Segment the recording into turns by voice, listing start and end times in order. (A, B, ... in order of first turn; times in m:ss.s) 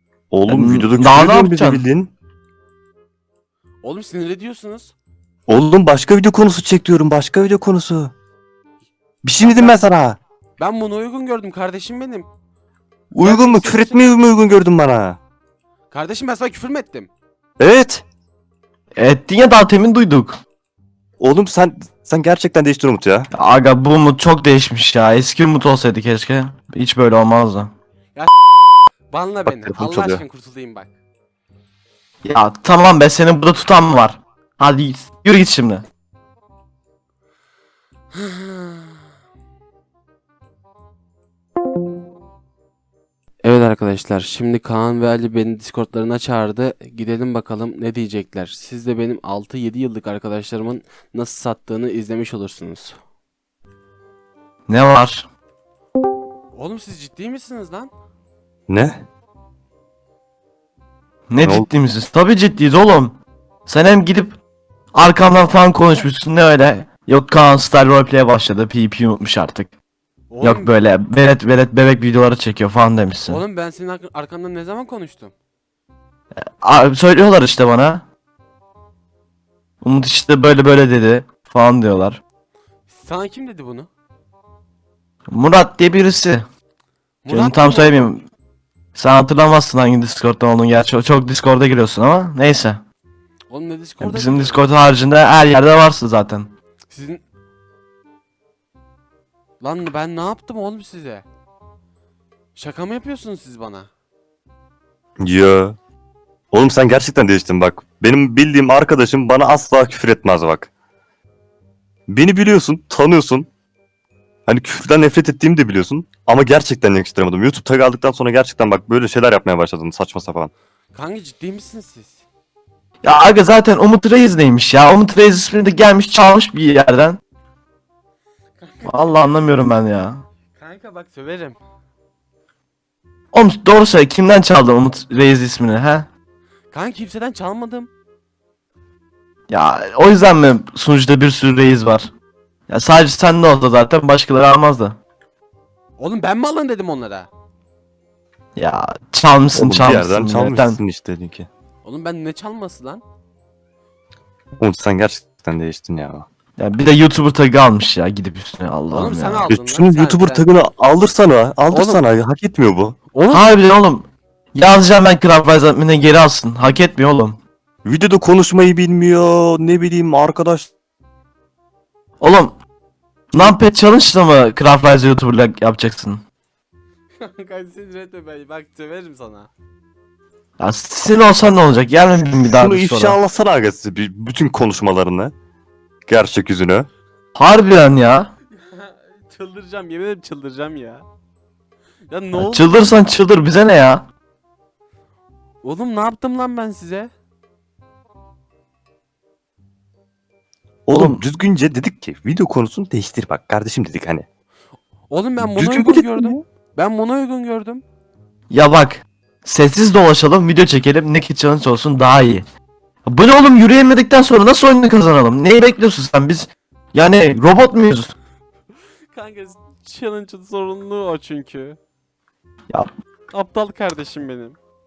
0:00.3-0:02.1 A
0:00.5-0:01.8 B
0:03.8-0:04.9 C
0:05.5-0:08.1 A
0:09.2-0:10.2 A
0:09.4-0:09.8 C
0:10.6-0:12.3 C
0:13.1-0:15.2 A
0:13.2-0:14.2 C
0:15.9-0:17.1 C
0:17.6-0:18.0 A
0:19.0-0:20.4 B
0:21.2-0:23.3 A
0:23.3-0:27.7 B
0:29.1-0:30.9 C
0:29.4-0:30.2 A
0:32.2-0:35.8 B
0:38.1-0:39.0 C
0:43.4-0:53.0 C
0:54.7-0:55.3 B
0:56.5-0:57.9 C
0:58.7-0:59.0 A
1:01.3-1:04.4 B
1:01.4-1:01.7 A
1:04.9-1:09.7 B
1:10.3-1:10.7 C
1:10.4-1:13.4 B
1:13.3-1:15.3 C
1:16.6-1:18.0 B
1:19.8-1:22.2 B
1:22.9-1:23.9 C
1:25.3-1:26.5 B
1:27.2-1:28.1 C
1:27.3-1:28.3 B
1:29.0-1:32.8 B
1:33.5-1:34.6 C
1:34.0-1:36.5 B
1:36.9-1:37.2 C
1:39.6-1:41.2 C
1:42.6-1:43.9 C
1:45.2-1:45.8 A
1:46.5-1:50.7 A
1:52.1-1:53.5 A
1:54.5-2:00.5 A
2:00.9-2:02.2 C
2:03.0-2:07.2 B
2:08.6-2:09.4 C
2:08.9-2:10.2 B
2:10.5-2:11.6 C
2:13.3-2:16.1 B
2:16.7-2:17.9 C
2:19.5-2:22.1 B
2:22.7-2:25.0 B
2:26.0-2:27.3 C
2:28.6-2:30.8 B
2:29.5-2:31.5 A
2:31.8-2:33.0 C
2:34.6-2:36.3 A
2:36.6-2:39.5 B
2:38.9-2:40.5 C
2:39.5-2:43.0 A
2:41.7-2:42.0 C
2:43.1-2:43.5 C
2:43.3-2:47.4 B
2:47.8-2:50.7 A
2:52.2-2:52.6 B
2:53.3-2:56.2 B
2:57.2-2:59.5 C
3:00.6-3:03.2 B
3:02.5-3:05.3 A
3:06.1-3:06.9 A
3:07.4-3:08.3 B
3:08.6-3:11.0 C
3:12.1-3:13.0 C
3:12.4-3:14.1 B
3:15.6-3:17.1 C
3:20.9-3:24.3 A
3:20.9-3:21.2 B
3:25.1-3:27.8 C
3:25.4-3:26.3 A
3:28.5-3:32.5 B
3:33.0-3:38.1 B
3:39.1-3:41.8 C
3:43.3-3:44.6 C